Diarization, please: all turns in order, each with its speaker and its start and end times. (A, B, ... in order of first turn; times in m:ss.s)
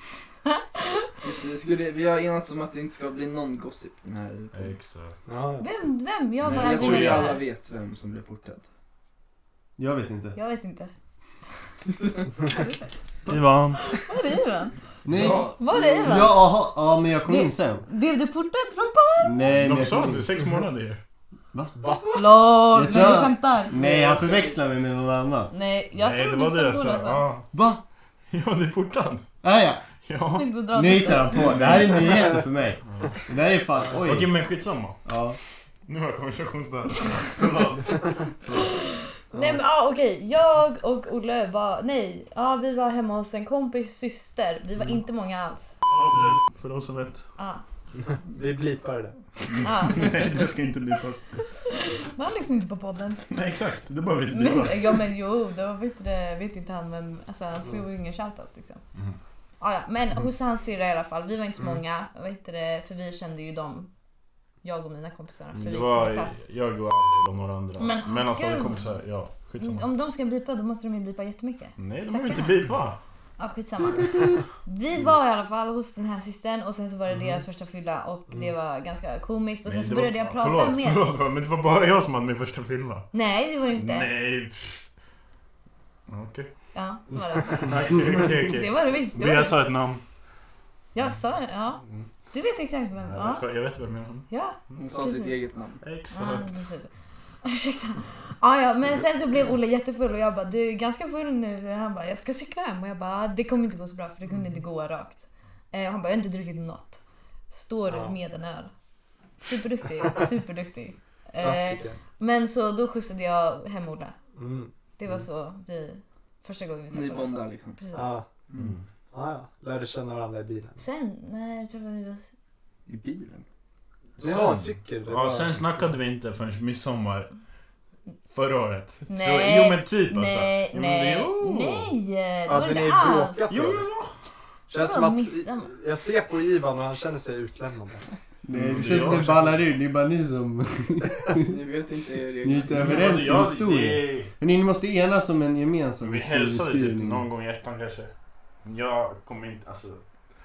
0:00.4-0:01.1 A
0:01.2-0:04.8 B
0:04.5-0:05.2 C
0:05.3-0:05.7 D
0:05.6-0:07.4 A
0:06.4-0:07.4 C
0:06.5-0:08.7 B
0:09.8-0:10.4 E
0:10.3-0:10.9 A
0:13.2-0:13.8 C
0:13.8-0:14.7 A
0:15.0-0:17.9 E
0:15.1-0:16.3 B
0:15.4-0:16.5 A
0:17.2-0:19.4 A
0:19.2-0:20.3 E
0:19.5-0:21.0 C
0:21.8-0:22.2 D
0:22.1-0:23.7 A
0:22.7-0:25.5 E
0:23.8-0:24.4 D
0:25.5-0:27.2 A
0:26.0-0:27.5 C
0:27.5-0:27.8 E
0:28.3-0:29.2 C
0:29.4-0:29.8 E
0:30.0-0:30.5 C
0:30.4-0:31.5 A
0:30.7-0:34.3 E
0:31.4-0:32.1 C
0:34.0-0:35.0 C
0:35.0-0:35.4 E
0:35.8-0:38.6 C
0:38.5-0:45.7 A
0:39.3-0:39.6 D
0:45.9-0:47.2 C
0:48.0-0:49.2 D
0:49.5-0:51.4 C
0:49.6-0:50.3 A
0:51.7-0:53.3 A
0:53.3-0:55.0 C
0:54.3-0:58.8 A
0:59.6-1:03.9 A
1:04.6-1:06.4 A
1:05.5-1:09.9 C
1:07.8-1:08.8 A
1:09.6-1:12.6 A
1:11.8-1:13.0 C
1:13.4-1:21.0 A
1:19.6-1:23.1 C
1:23.1-1:24.1 A
1:23.7-1:24.9 C
1:26.1-1:26.5 C
1:26.7-1:27.7 A
1:27.3-1:27.6 D
1:27.6-1:30.0 C
1:28.4-1:29.6 A
1:30.9-1:31.8 A
1:31.8-1:32.1 C
1:32.3-1:33.4 A
1:33.0-1:34.3 C
1:34.3-1:35.3 A
1:34.8-1:35.8 B
1:35.8-1:36.6 C
1:36.1-1:36.9 A
1:37.4-1:47.0 A
1:47.5-1:48.7 A
1:47.9-1:48.1 D
1:49.4-1:54.2 A
1:51.4-1:52.0 D
1:54.4-1:55.1 D
1:55.0-1:58.2 A
1:56.9-1:57.8 B
1:57.9-1:58.3 D
1:58.5-1:58.8 B
1:58.6-1:58.8 C
1:59.1-2:00.8 D
2:00.8-2:02.3 A
2:02.8-2:03.4 B
2:04.2-2:07.3 C
2:04.2-2:05.6 D
2:08.3-2:11.9 C
2:09.1-2:13.6 A
2:12.5-2:13.9 D
2:13.5-2:14.1 C
2:14.7-2:18.0 D
2:14.8-2:15.7 A
2:18.4-2:21.6 E
2:18.5-2:19.6 C
2:21.4-2:23.0 B
2:22.4-2:27.2 E
2:22.7-2:24.3 C
2:26.0-2:28.1 C
2:28.6-2:30.0 C